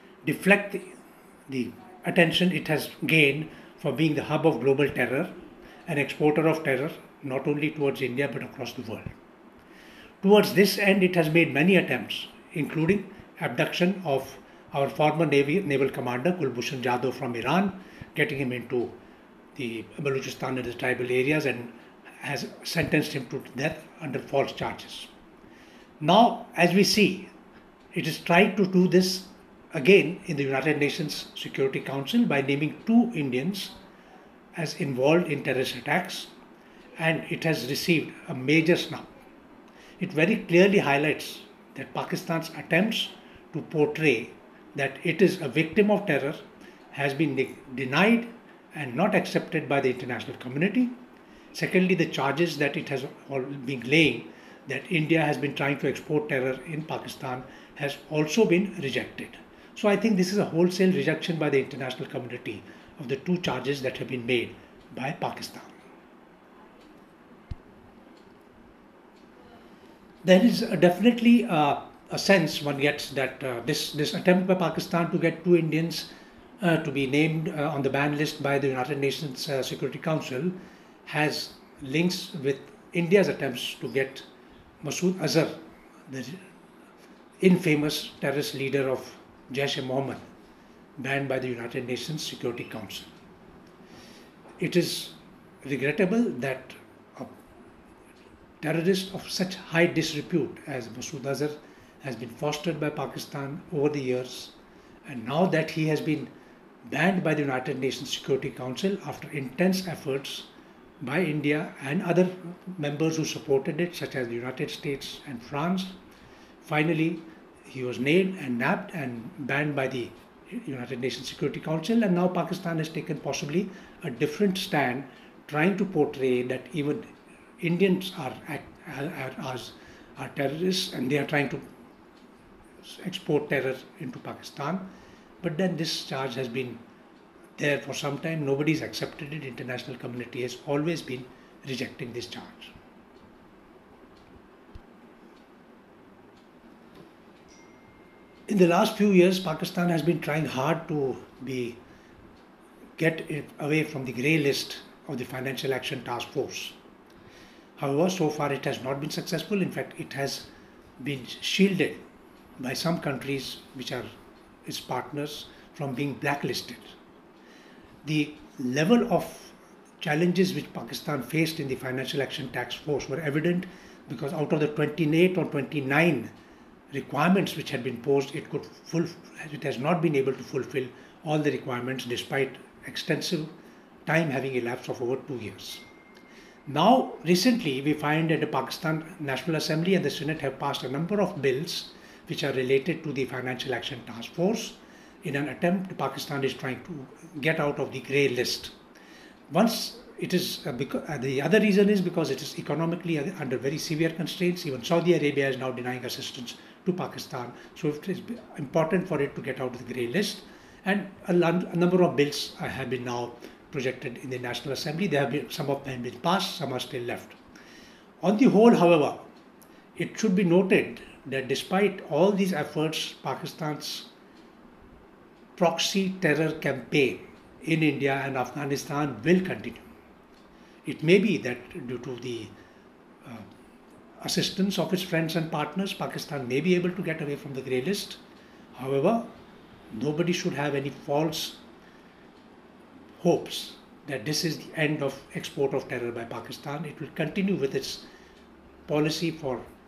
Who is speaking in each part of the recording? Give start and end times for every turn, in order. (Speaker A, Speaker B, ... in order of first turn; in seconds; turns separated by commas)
Speaker A: 0.2-0.9, Speaker A: 1.5-5.3, Speaker A: 5.9-9.1, Speaker A: 10.2-18.9, Speaker A: 19.5-25.1, Speaker A: 26.0-27.3, Speaker A: 27.9-33.7, Speaker A: 34.5-36.3, Speaker A: 37.0-39.1, Speaker A: 40.0-46.4, Speaker A: 46.9-50.9, Speaker A: 51.5-65.7, Speaker A: 70.2-76.1, Speaker A: 76.6-80.5, Speaker A: 81.0-84.2, Speaker A: 84.8-86.4, Speaker A: 87.4-90.2, Speaker A: 91.0-93.1, Speaker A: 94.6-97.3, Speaker A: 98.6-104.5, Speaker A: 105.0-106.3, Speaker A: 106.8-110.5, Speaker A: 111.0-115.9, Speaker A: 116.6-127.1, Speaker A: 127.6-131.6, Speaker A: 132.8-134.8, Speaker A: 135.4-136.8, Speaker A: 137.6-142.7, Speaker A: 148.5-151.8, Speaker A: 153.0-156.7, Speaker A: 157.8-160.5, Speaker A: 161.0-162.0, Speaker A: 162.6-164.1, Speaker A: 164.6-166.9, Speaker A: 168.0-176.3, Speaker A: 176.9-183.5, Speaker A: 184.1-185.8, Speaker A: 186.7-198.7, Speaker A: 199.5-217.4, Speaker A: 218.2-219.2, Speaker A: 220.0-224.1, Speaker A: 225.6-229.9, Speaker A: 230.8-232.5, Speaker A: 234.2-238.2, Speaker A: 238.7-239.3, Speaker A: 239.9-241.6, Speaker A: 243.2-248.0, Speaker A: 248.9-249.6